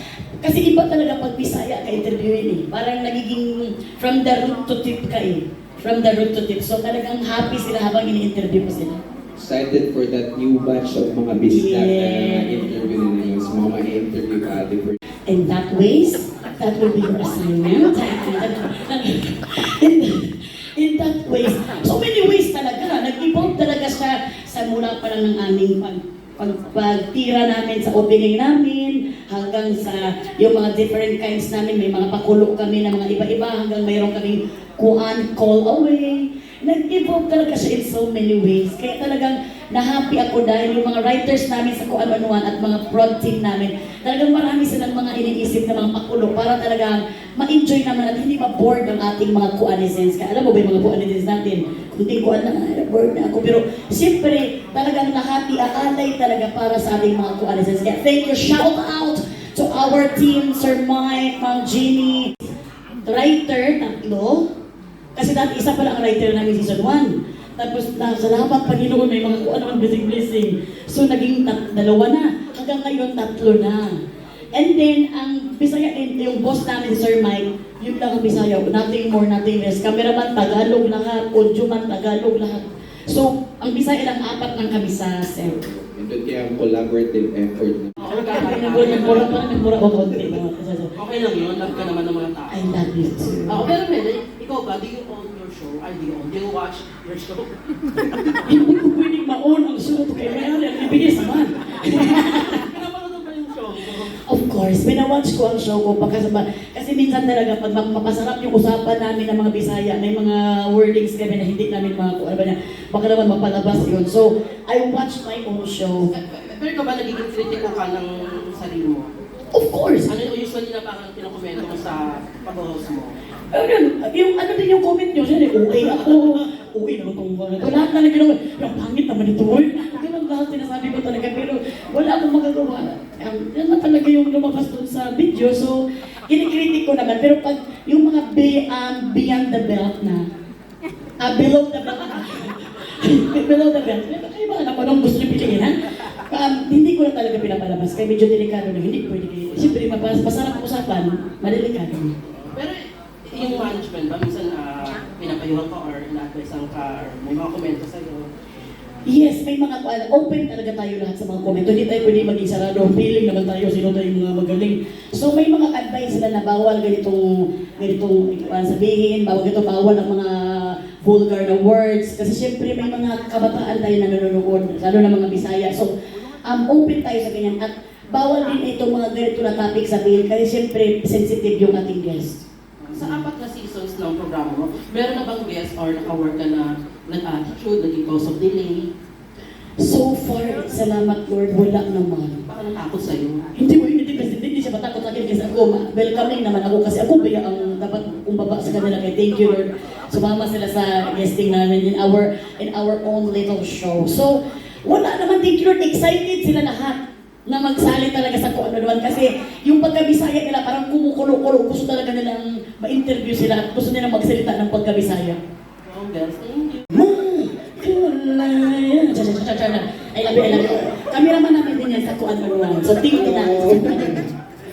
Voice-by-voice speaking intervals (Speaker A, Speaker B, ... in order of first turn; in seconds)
Speaker A: 0.4-9.0, 11.5-12.9, 15.3-62.5, 63.0-64.5, 65.2-73.9, 74.5-85.6, 88.1-90.9, 92.5-93.7, 98.5-102.7, 104.2-116.1, 119.5-120.1, 123.5-140.2, 141.2-145.7, 146.3-152.1, 159.1-175.9, 176.4-182.4, 182.9-183.2, 189.8-192.4, 193.6-215.4, 216.9-224.2
Speaker B: 9.3-15.0, 85.4-88.0, 223.1-224.2
Speaker C: 88.0-89.4, 91.0-92.6, 93.5-97.5, 101.7-104.2, 116.1-119.1, 120.0-123.2, 125.8-126.4, 152.3-158.3, 182.8-188.9, 192.5-193.5, 215.9-216.9